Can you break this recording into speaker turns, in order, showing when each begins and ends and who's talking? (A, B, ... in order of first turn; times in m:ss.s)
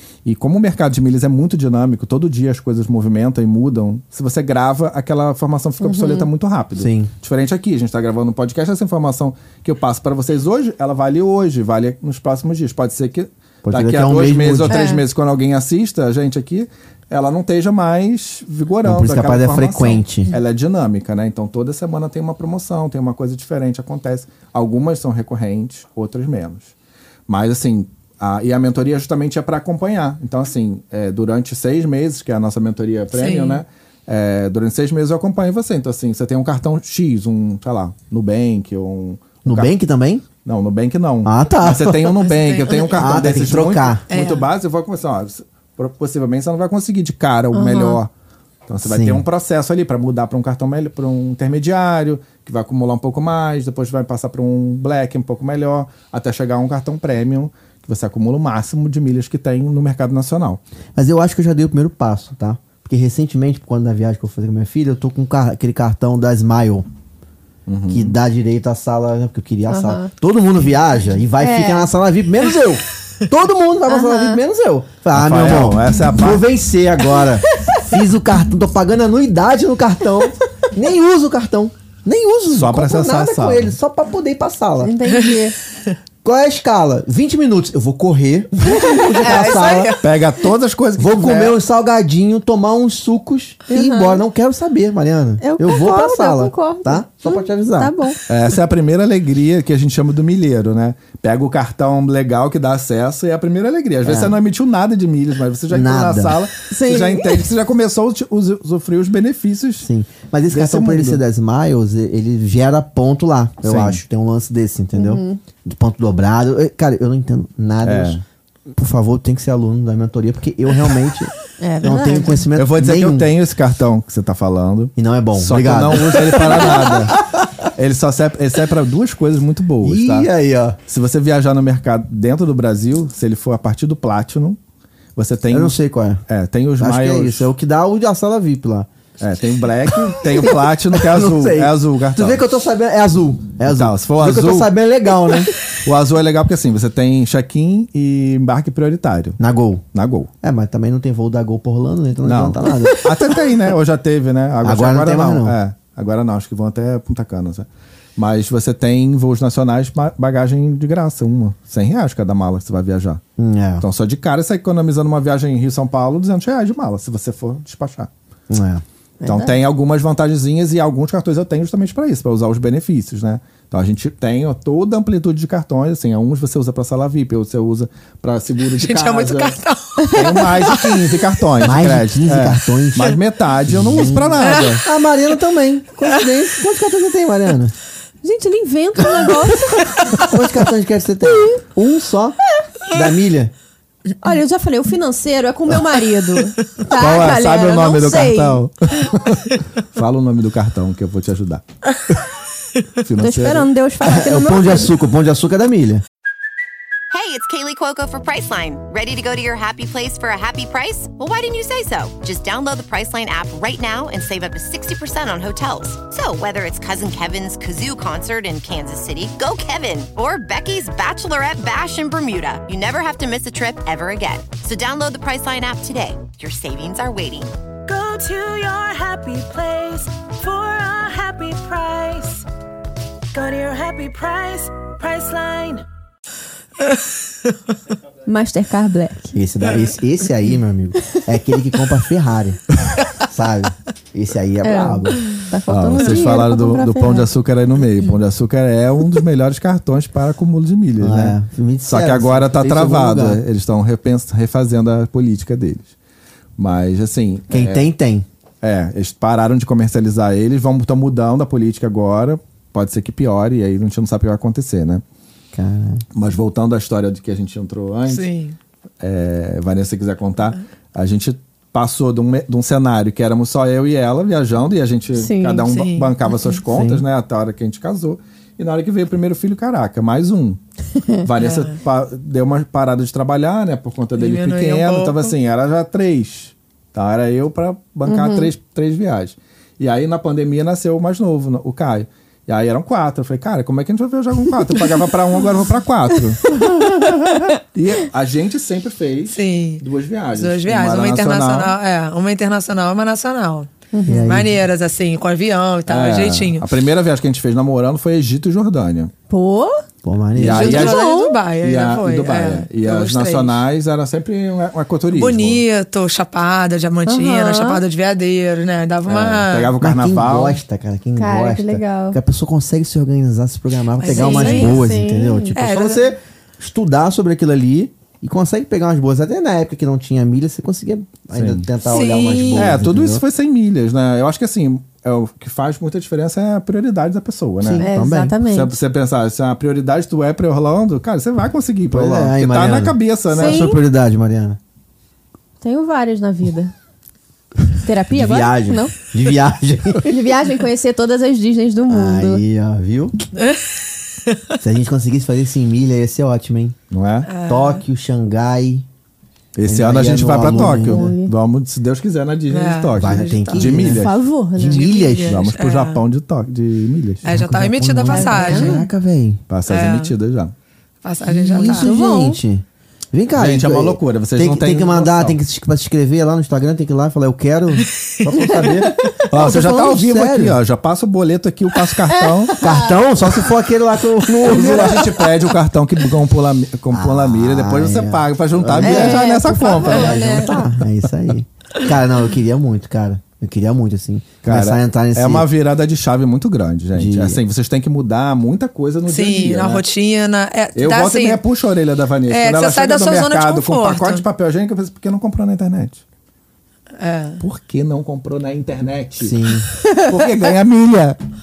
0:00.2-0:26.7 A
0:05.8-0:06.3 B
0:06.8-0:07.1 C
0:13.6-0:14.9 C
0:14.7-0:15.0 B
0:18.8-0:20.3 C
0:27.3-0:39.7 A
0:33.1-0:33.6 D
0:39.4-0:40.2 C
0:40.4-0:48.1 A
0:41.2-0:42.2 C
0:42.2-0:43.1 D
0:42.9-0:44.0 C
0:44.1-0:44.5 D
0:47.5-0:48.0 B
0:48.7-1:00.6 A
0:48.8-0:49.2 C
1:01.0-1:06.9 C
1:07.7-1:08.2 A
1:07.9-1:24.9 C
1:09.7-1:10.1 B
1:11.4-1:11.9 B
1:13.9-1:14.4 B
1:15.1-1:16.4 A
1:22.5-1:23.7 A
1:24.8-1:25.6 B
1:26.2-1:29.9 C
1:29.0-1:30.1 D
1:30.0-1:31.6 A
1:31.0-1:37.9 C
1:33.7-1:34.2 B
1:35.4-1:38.2 B
1:38.3-1:49.9 A
1:44.0-1:44.4 C
1:45.7-1:46.4 C
1:46.7-1:47.4 B
1:49.8-2:03.3 C
1:50.5-1:51.2 A
1:53.6-1:54.0 A
1:54.9-1:55.4 B
1:57.8-1:58.2 A
2:01.6-2:02.5 B
2:02.5-2:07.2 A
2:05.0-2:07.5 C
2:07.7-2:10.3 A
2:09.8-2:10.8 C
2:10.9-2:14.6 A
2:15.1-2:15.7 A
2:15.5-2:16.2 C
2:16.3-2:17.5 A
2:16.8-2:18.9 C
2:19.2-2:22.4 A
2:19.8-2:25.5 C
2:23.6-2:24.7 A
2:25.7-2:29.4 A
2:29.4-2:29.8 C
2:29.9-2:30.3 A
2:30.4-2:33.1 C
2:32.2-2:43.2 A
2:34.6-2:35.6 C
2:43.4-2:43.8 C
2:43.8-2:48.1 A
2:48.5-2:48.8 C
2:49.2-2:49.5 B
2:49.2-2:59.6 A
2:58.7-3:01.3 D
3:00.1-3:04.8 A
3:01.6-3:07.7 C
3:04.4-3:04.8 D
3:08.2-3:10.2 B
3:10.1-3:13.5 C
3:14.2-3:18.6 B
3:16.8-3:22.2 A
3:23.0-3:23.7 A
3:23.2-3:24.9 B
3:24.0-3:26.0 C
3:27.1-3:47.5 E
3:47.9-3:52.4 F
3:53.3-3:55.8 F
3:56.8-3:57.5 D
3:58.2-3:59.4 B
3:59.3-4:05.2 C
4:04.6-4:07.3 B
4:05.7-4:15.9 A
4:11.0-4:13.4 C
4:16.6-4:17.9 A
4:17.5-4:18.2 C
4:18.6-4:25.0 A
4:25.5-4:26.0 C
4:26.1-4:28.3 A
4:28.1-4:28.6 D
4:29.0-4:40.6 A
4:35.1-4:35.7 B
4:35.6-4:36.5 D
4:36.7-4:37.0 C
4:41.2-5:01.7 A
4:41.4-4:41.8 D
4:44.2-4:45.3 D
4:48.1-4:48.5 B
4:59.3-5:03.7 D
5:03.9-5:04.4 B
5:04.0-5:04.6 C
5:04.2-5:06.7 D
5:05.9-5:09.1 A
5:09.3-5:09.8 B
5:10.0-5:10.9 C
5:10.4-5:11.1 A
5:10.4-5:13.6 D
5:10.5-5:11.4 B
5:11.6-5:15.6 A
5:15.1-5:19.7 D
5:17.0-5:17.8 B
5:19.1-5:20.6 A
5:19.8-5:33.2 C
5:21.2-5:22.2 B
5:24.0-5:24.8 D
5:24.1-5:25.5 B
5:25.6-5:26.0 D
5:31.3-5:31.6 A
5:31.8-5:32.8 D
5:32.5-5:37.8 A
5:37.6-5:38.4 C
5:37.8-5:38.8 B
5:38.4-5:43.6 A
5:41.9-5:44.6 C
5:43.3-5:43.8 B
5:45.6-5:46.7 B
5:47.8-5:48.9 B
5:48.1-5:50.1 C
5:50.0-5:52.4 B
5:51.9-5:53.2 C
5:53.4-5:54.4 D
5:54.6-5:56.8 C
5:56.9-5:57.3 A
5:57.2-5:57.8 D
5:57.4-5:58.8 C
5:59.5-6:04.2 A
5:59.6-6:01.1 C
6:00.5-6:01.3 B
6:02.5-6:03.8 D
6:02.9-6:05.4 C
6:03.8-6:04.9 B
6:04.6-6:06.0 D
6:05.2-6:07.2 A
6:07.2-6:08.9 D
6:07.2-6:09.4 C
6:08.1-6:08.8 B
6:09.5-6:10.5 A
6:09.7-6:10.1 D
6:11.0-6:11.9 D
6:11.2-6:20.6 C
6:11.6-6:12.4 B
6:13.4-6:15.4 A
6:19.3-6:22.5 A
6:22.1-6:23.0 B
6:22.6-6:25.3 C
6:24.4-6:30.4 A
6:26.9-6:35.5 C
6:28.8-6:30.6 B
6:34.4-6:39.8 A
6:36.9-6:37.4 C
6:39.0-6:41.4 D
6:40.7-6:46.0 A
6:42.3-6:44.2 D
6:47.0-6:47.4 D
6:47.4-6:51.2 A
6:49.2-6:49.7 C
6:49.8-6:50.1 B